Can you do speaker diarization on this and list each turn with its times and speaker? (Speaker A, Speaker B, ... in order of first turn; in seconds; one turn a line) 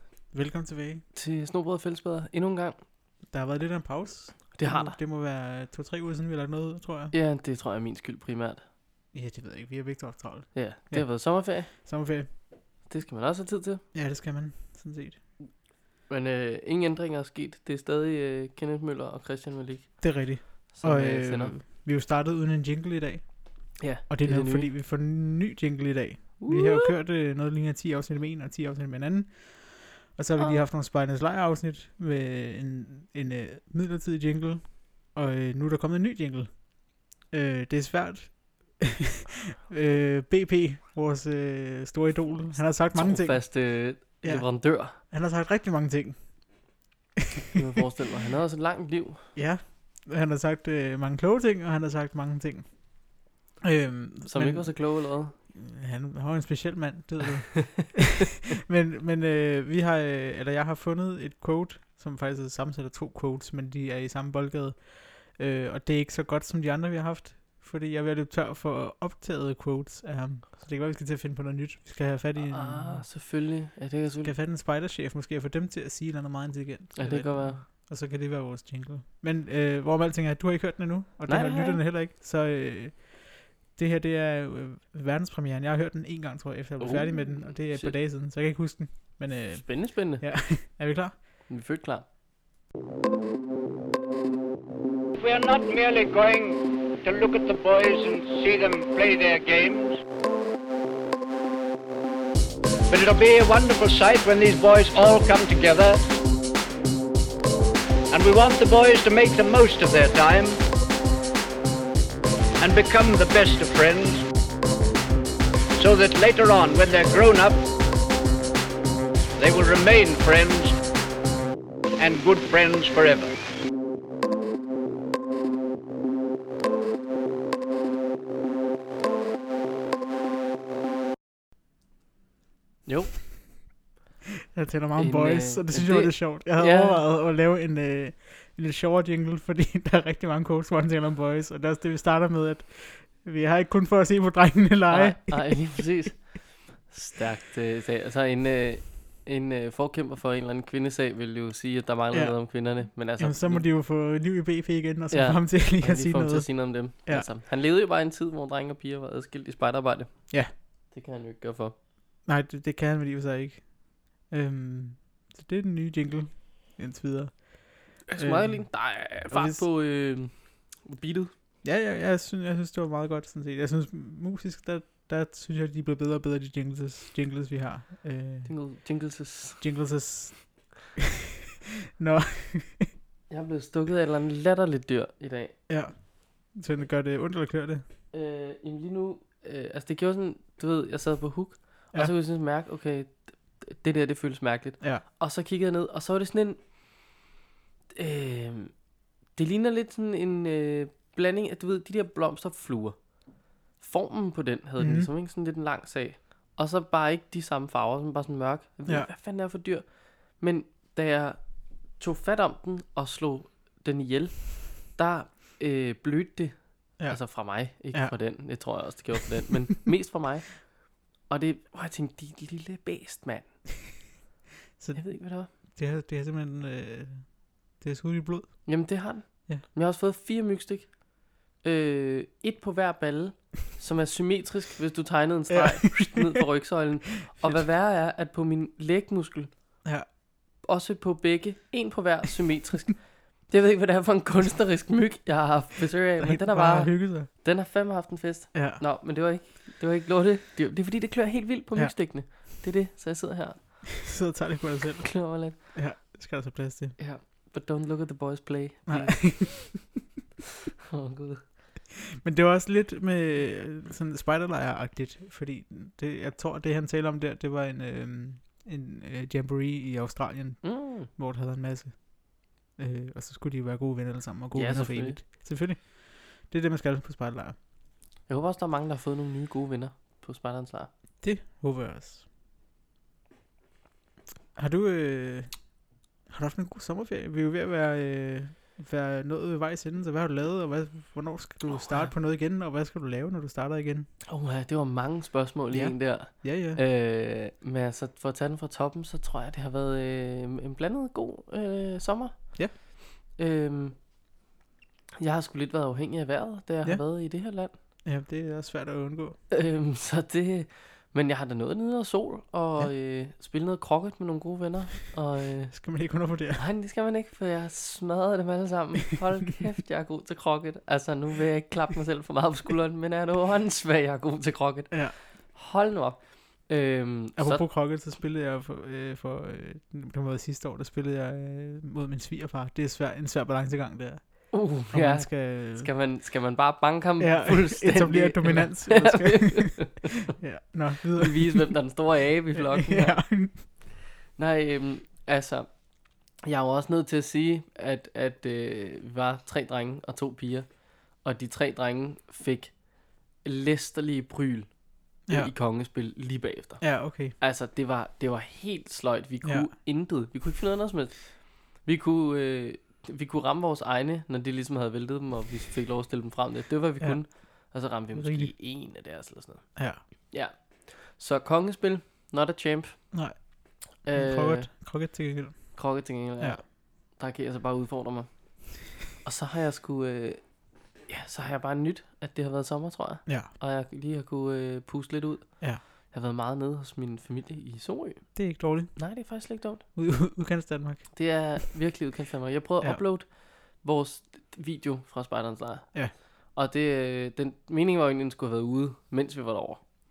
Speaker A: 0.3-1.0
Speaker B: 1.1-2.8
Speaker A: 3.3-7.1
Speaker B: 4.6-5.0
Speaker B: 7.1-8.6
Speaker A: 9.1-12.3
Speaker B: 10.5-11.7
Speaker B: 12.9-13.8
Speaker A: 13.9-15.2
Speaker B: 16.1-21.6
Speaker A: 20.0-36.7
Speaker B: 23.8-24.7
Speaker B: 26.4-26.9
Speaker A: 37.3-43.7
Speaker B: 42.9-45.0
Speaker A: 44.2-46.4
Speaker B: 47.5-49.3
Speaker A: 49.4-52.8
Speaker A: 53.6-54.7
Speaker B: 54.3-55.3
Speaker A: 55.5-73.1
Speaker B: 72.4-74.3
Speaker A: 74.2-91.2
Speaker B: 77.0-77.6
Speaker B: 81.3-81.8
Speaker B: 86.8-88.0
Speaker B: 89.5-90.2
Speaker B: 91.5-92.0
Speaker C: 95.2-100.0
Speaker C: 102.9-106.0
Speaker C: 108.1-110.6
Speaker C: 112.6-114.2
Speaker C: 115.8-117.7
Speaker C: 119.4-120.8
Speaker C: 122.0-123.3
Speaker B: 132.9-133.2
Speaker A: 134.5-146.1
Speaker B: 135.0-137.0
Speaker B: 144.9-153.7
Speaker A: 152.1-157.3
Speaker B: 155.1-161.8
Speaker A: 162.3-169.6
Speaker B: 168.1-171.3
Speaker A: 171.6-178.6
Speaker B: 178.4-179.6
Speaker A: 179.6-181.1
Speaker A: 182.0-182.9
Speaker B: 183.3-185.6
Speaker A: 185.7-187.8
Speaker B: 188.1-196.6
Speaker B: 197.9-198.7
Speaker B: 199.3-203.0
Speaker B: 203.8-211.4
Speaker A: 204.8-205.1
Speaker B: 211.9-223.6
Speaker A: 217.0-218.2
Speaker A: 224.8-227.3
Speaker B: 224.9-225.5
Speaker A: 227.8-228.8
Speaker B: 228.7-239.5
Speaker A: 235.5-236.4
Speaker B: 240.6-253.9
Speaker A: 246.2-247.3
Speaker A: 248.5-248.8
Speaker A: 251.8-252.3
Speaker A: 254.0-257.0
Speaker B: 255.1-255.8
Speaker B: 257.0-259.8
Speaker A: 258.9-259.8
Speaker B: 260.9-261.4
Speaker A: 262.1-277.6
Speaker B: 270.6-271.1
Speaker B: 274.6-275.2
Speaker B: 278.3-280.9
Speaker A: 281.2-282.2
Speaker A: 284.6-285.5
Speaker A: 286.3-294.1
Speaker B: 294.3-302.8
Speaker A: 295.7-296.8
Speaker B: 303.4-304.0
Speaker B: 305.2-307.8
Speaker A: 308.1-309.4
Speaker B: 309.5-315.8
Speaker A: 315.7-316.6
Speaker B: 316.6-327.7
Speaker A: 327.4-335.9
Speaker B: 334.5-340.3
Speaker A: 337.2-341.7
Speaker B: 341.2-343.7
Speaker A: 342.5-343.6
Speaker B: 344.4-345.7
Speaker B: 346.4-352.8
Speaker B: 353.4-354.7
Speaker A: 355.3-355.5
Speaker B: 355.3-369.8
Speaker A: 356.8-357.3
Speaker A: 359.4-359.7
Speaker A: 368.1-368.5
Speaker B: 370.3-373.1
Speaker A: 373.1-376.6
Speaker B: 374.0-374.7
Speaker B: 375.8-380.4
Speaker B: 381.1-389.8
Speaker A: 383.3-383.5
Speaker A: 388.4-389.1
Speaker A: 389.9-391.6
Speaker B: 391.1-399.9